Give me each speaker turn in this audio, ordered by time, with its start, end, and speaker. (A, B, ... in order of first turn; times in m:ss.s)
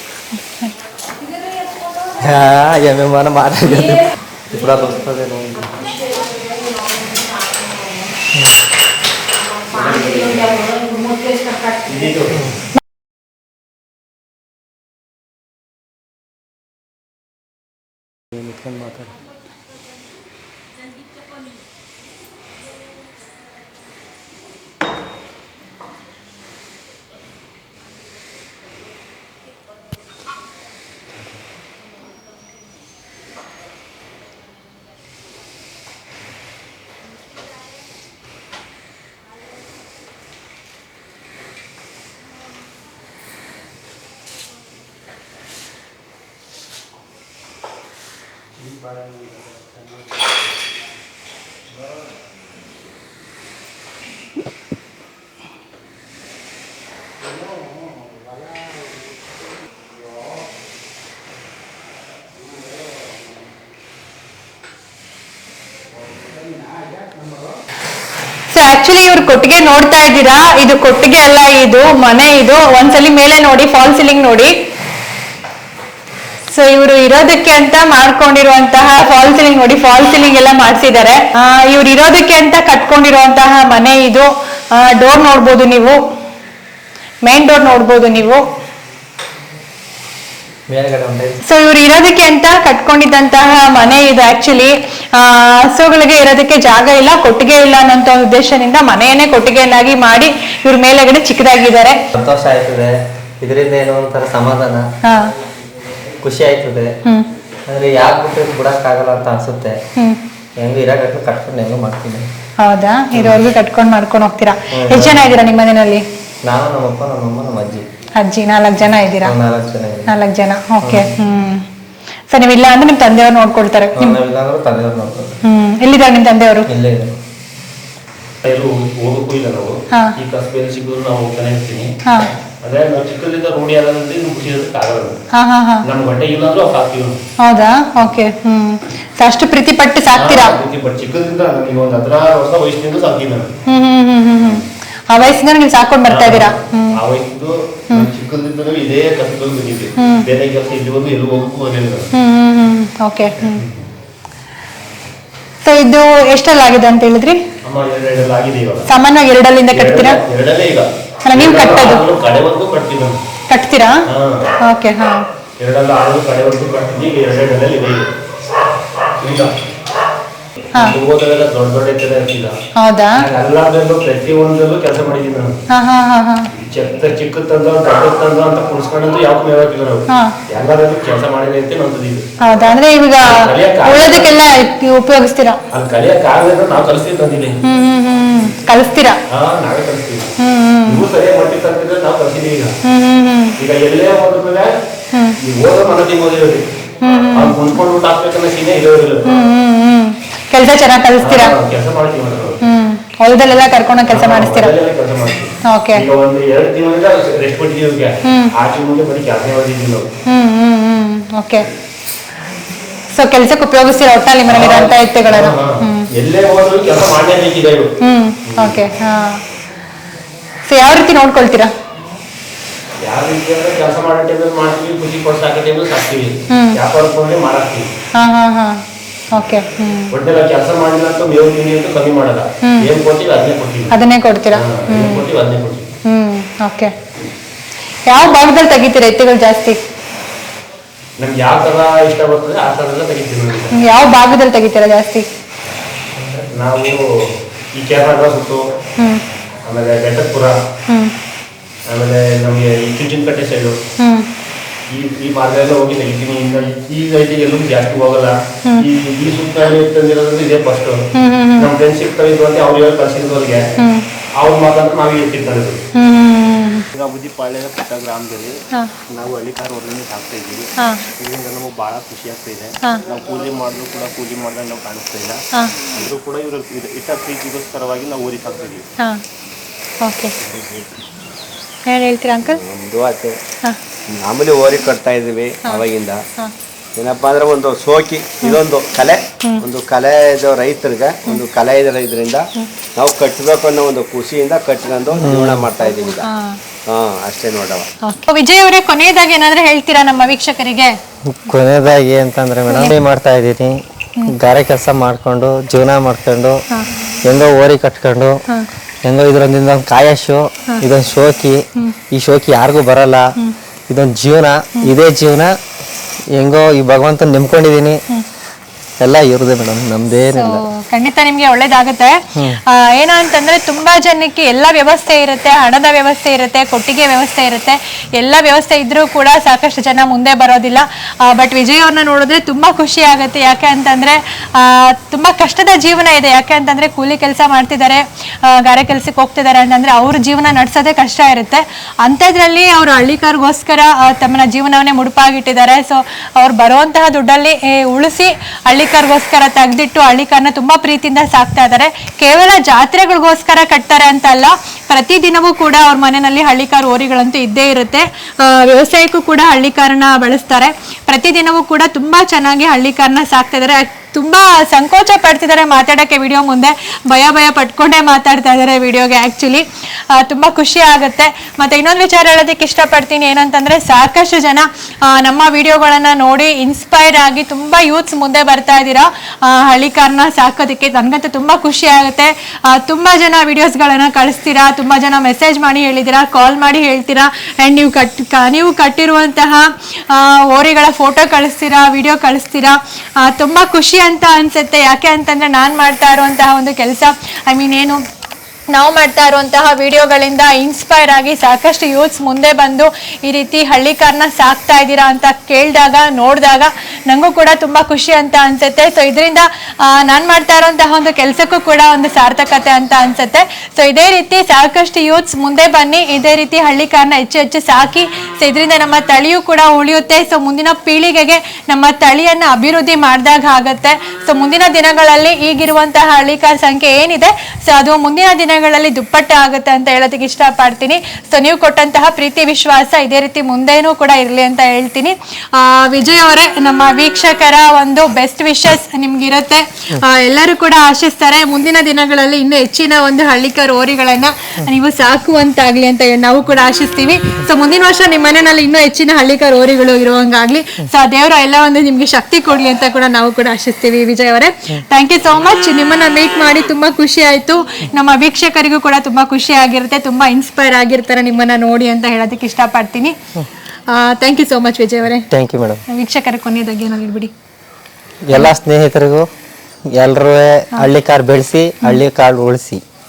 0:02.2-0:05.9 A
0:09.7-0:10.7 B
0:10.7-0:11.7 C
0:11.8-0:12.5 B
0:18.4-0:19.0 A
1:08.5-1:14.5 C
1:16.5-1:26.0 C
1:27.2-1:28.4 C
1:30.7-1:31.4 A
1:31.4-1:42.0 C
1:42.1-1:44.8 A
1:45.0-1:45.3 C
1:46.2-1:46.9 A
1:47.7-1:49.8 A
1:50.0-1:50.2 C
1:50.6-1:52.3 A
1:52.6-1:56.0 C
1:53.1-1:53.5 A
1:54.7-1:55.2 A
1:56.4-1:57.9 A
1:58.2-1:59.3 C
1:59.2-2:00.1 A
2:00.1-2:01.6 C
2:00.8-2:01.1 A
2:02.3-2:04.2 C
2:03.9-2:05.4 A
2:05.4-2:06.7 C
2:06.7-2:07.2 A
2:08.4-2:11.9 B
2:12.0-2:12.3 C
2:12.6-2:15.2 B
2:15.3-2:15.8 C
2:15.8-2:17.2 B
2:17.4-2:20.6 C
2:20.2-2:23.5 B
2:23.7-2:26.9 C
2:26.1-2:32.1 B
2:30.0-2:30.3 C
2:32.1-2:33.6 C
2:33.5-2:33.7 B
2:35.6-2:37.4 C
2:37.6-2:38.9 B
2:38.9-2:40.2 C
2:39.7-2:43.2 B
2:41.2-2:42.0 C
2:43.5-2:44.0 C
2:44.1-2:44.4 B
2:44.6-2:45.2 C
2:45.6-2:48.1 B
2:49.2-2:49.5 B
2:50.7-2:52.6 B
2:52.8-2:53.2 C
2:53.1-2:55.6 B
2:55.7-2:56.5 C
2:56.5-3:02.2 B
3:00.1-3:00.4 C
3:02.4-3:05.6 C
3:03.2-3:04.3 B
3:05.7-3:07.6 B
3:07.6-3:09.2 C
3:09.3-3:12.8 B
3:10.4-3:11.0 C
3:12.8-3:13.6 C
3:13.6-3:14.7 B
3:15.1-3:15.4 C
3:15.4-3:16.7 B
3:17.0-3:17.6 C
3:17.3-3:19.2 B
3:19.2-3:21.5 C
3:21.2-3:22.6 B
3:22.6-3:24.7 C
3:24.1-3:30.1 B
3:25.7-3:26.0 C
3:28.2-3:28.5 C
3:30.2-3:31.7 C
3:33.1-3:36.1 C
3:34.5-3:37.9 B
3:38.0-3:39.4 C
3:38.5-3:38.8 B
3:40.7-3:41.7 C
3:43.0-3:47.9 B
3:46.5-3:46.8 C
3:48.1-3:50.1 C
3:50.1-3:54.0 B
3:52.6-3:52.9 C
3:53.9-3:55.2 C
3:54.5-3:55.9 B
3:56.0-3:56.9 C
3:58.1-3:59.8 C
4:01.2-4:03.9 B
4:03.7-4:05.2 C
4:06.2-4:08.6 B
4:09.6-4:10.6 B
4:10.9-4:11.1 C
4:11.9-4:13.8 B
4:14.0-4:14.3 C
4:14.9-4:21.0 B
4:21.1-4:21.7 C
4:21.6-4:23.7 B
4:23.8-4:24.0 C
4:24.3-4:25.8 B
4:25.9-4:26.8 C
4:26.9-4:28.6 B
4:29.1-4:38.8 B
4:30.8-4:31.0 C
4:40.0-4:40.3 C
4:40.4-4:40.8 D
4:41.9-4:42.6 C
4:42.4-4:43.4 D
4:44.1-4:46.2 D
4:47.0-4:52.4 D
4:53.0-4:56.3 D
4:55.2-4:55.6 A
4:56.2-4:56.6 C
4:56.8-4:57.9 D
4:58.0-5:01.0 C
5:01.2-5:06.6 A
5:02.7-5:03.0 C
5:07.2-5:08.4 A
5:09.0-5:13.3 A
5:13.9-5:15.5 A
5:16.3-5:18.0 A
5:19.0-5:20.6 A
5:20.3-6:38.0 C
5:22.3-5:22.6 A
6:38.7-7:43.2 C
7:43.9-7:45.3 C
7:45.3-7:45.8 A
7:45.9-7:47.3 C
7:48.2-7:49.3 A
7:49.9-7:52.8 A